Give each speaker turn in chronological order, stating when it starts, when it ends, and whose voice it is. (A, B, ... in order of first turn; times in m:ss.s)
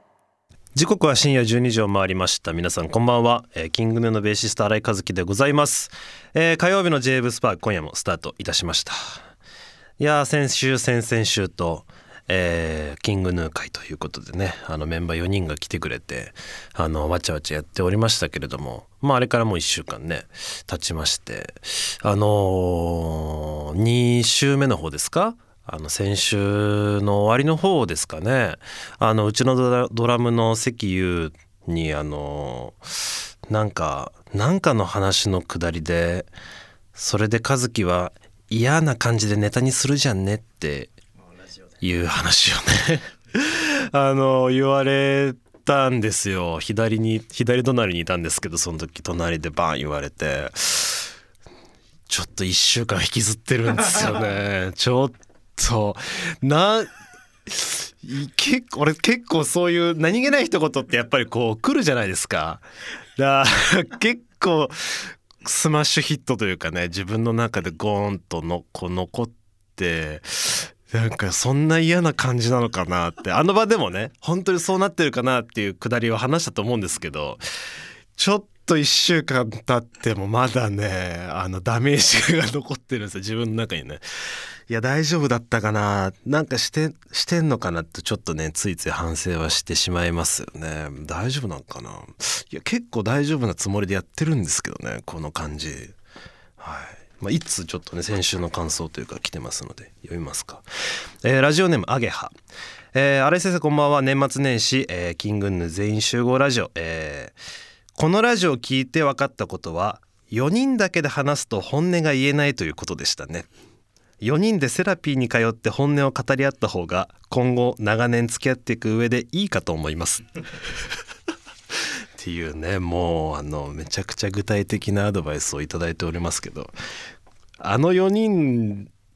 0:00.7-0:09.2 A
0:10.0-0:36.3 A
0:36.9-0:40.9 A
0:41.8-0:51.1 A
0:52.1-0:56.9 A
0:57.5-1:02.6 A
1:03.2-1:17.4 A
1:18.2-1:24.0 A
1:24.7-1:35.9 A
1:36.6-1:40.6 A
1:41.2-1:42.3 A
1:42.9-1:47.4 A
1:48.0-1:53.5 A
1:54.2-2:00.3 A
2:02.2-2:06.7 A
2:07.6-2:08.9 A